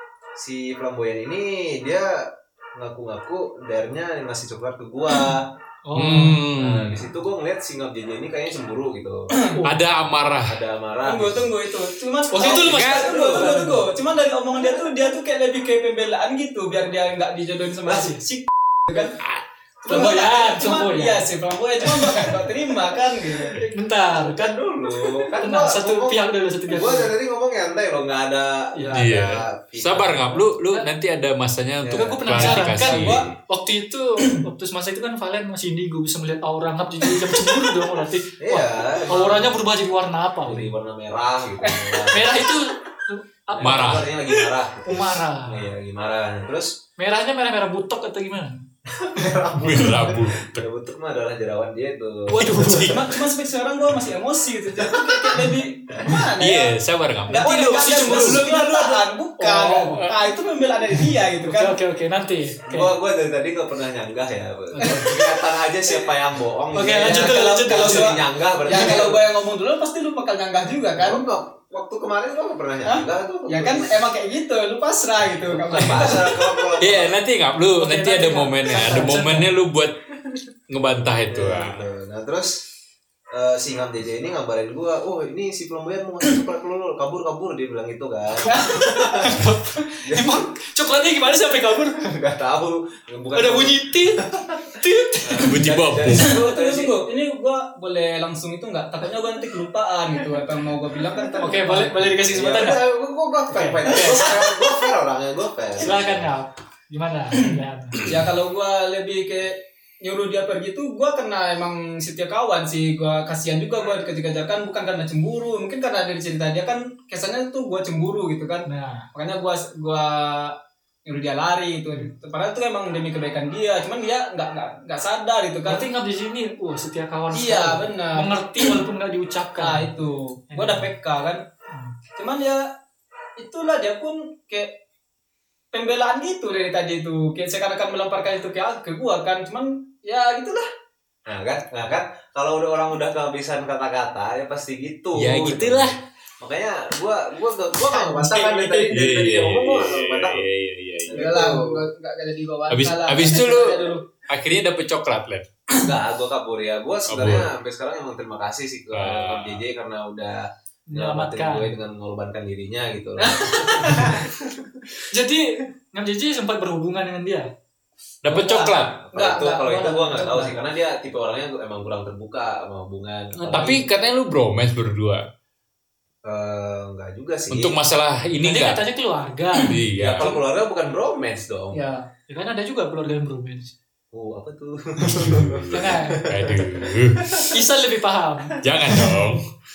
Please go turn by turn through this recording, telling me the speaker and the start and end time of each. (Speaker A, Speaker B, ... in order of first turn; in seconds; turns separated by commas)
Speaker A: 0.3-5.5, Speaker B: 5.8-6.4, Speaker C: 5.9-7.1, Speaker A: 6.5-9.5, Speaker D: 9.3-9.6, Speaker C: 9.6-10.6, Speaker A: 10.4-11.5, Speaker D: 11.0-19.2, Speaker B: 12.3-13.9, Speaker A: 12.3-13.7, Speaker C: 12.4-13.1, Speaker B: 19.8-21.3, Speaker D: 19.8-23.6, Speaker B: 21.9-22.3, Speaker B: 23.5-24.6, Speaker A: 24.1-30.4, Speaker B: 25.3-27.1, Speaker B: 28.7-29.0, Speaker C: 28.9-33.2, Speaker A: 31.8-33.3, Speaker B: 31.9-40.7, Speaker D: 32.6-33.3, Speaker D: 37.2-37.6, Speaker A: 38.4-39.5, Speaker A: 40.4-42.5, Speaker D: 41.6-42.1, Speaker B: 42.1-44.1, Speaker A: 43.5-46.8, Speaker C: 43.6-44.1, Speaker B: 44.8-45.6, Speaker B: 47.0-48.6, Speaker A: 48.9-53.0, Speaker C: 49.5-50.6, Speaker B: 52.3-53.0, Speaker D: 52.5-56.7, Speaker C: 56.1-58.5, Speaker D: 57.3-61.8, Speaker B: 57.4-58.8, Speaker A: 58.6-59.0, Speaker B: 59.4-60.1, Speaker B: 61.4-62.9, Speaker A: 62.7-69.3, Speaker B: 64.7-65.1, Speaker B: 66.7-68.2, Speaker D: 66.9-71.2, Speaker A: 71.0-74.0, Speaker D: 72.8-76.7, Speaker A: 75.5-77.2, Speaker C: 76.8-80.0, Speaker B: 77.8-79.5, Speaker D: 78.7-79.2, Speaker C: 80.7-81.8, Speaker A: 81.3-82.7, Speaker A: 83.3-89.5, Speaker B: 88.4-92.0, Speaker D: 88.5-89.3, Speaker A: 90.0-90.5, Speaker A: 92.0-97.0, Speaker B: 93.3-95.6, Speaker C: 95.4-96.4, Speaker D: 96.2-102.2, Speaker B: 101.4-102.8, Speaker A: 102.3-106.3, Speaker B: 103.5-104.0, Speaker D: 103.8-104.6, Speaker B: 105.8-108.1, Speaker D: 107.9-125.9, Speaker B: 118.7-119.1, Speaker B: 125.7-129.9, Speaker D: 127.3-128.8, Speaker D: 129.6-131.4, Speaker B: 130.5-130.9, Speaker D: 132.2-132.7, Speaker D: 133.4-134.8, Speaker D: 135.7-140.7, Speaker A: 141.2-150.5, Speaker C: 145.2-146.0, Speaker D: 147.8-148.9, Speaker C: 148.9-151.3, Speaker A: 151.0-151.8, Speaker D: 151.1-154.0, Speaker C: 152.7-155.4, Speaker A: 155.8-164.8, Speaker C: 157.1-157.5, Speaker C: 158.9-159.6, Speaker B: 160.9-161.7, Speaker D: 163.2-164.2, Speaker B: 165.1-167.5, Speaker C: 168.2-169.0, Speaker D: 168.3-170.2, Speaker A: 169.0-173.8, Speaker B: 169.7-170.6, Speaker C: 173.4-175.2, Speaker A: 176.2-177.8, Speaker C: 177.5-178.8, Speaker B: 178.4-179.7, Speaker C: 179.6-180.3, Speaker A: 179.9-181.8, Speaker D: 181.7-182.1, Speaker B: 182.3-183.7, Speaker A: 184.1-187.5, Speaker C: 185.0-187.3, Speaker B: 185.7-186.2, Speaker B: 187.5-189.2, Speaker C: 188.6-189.4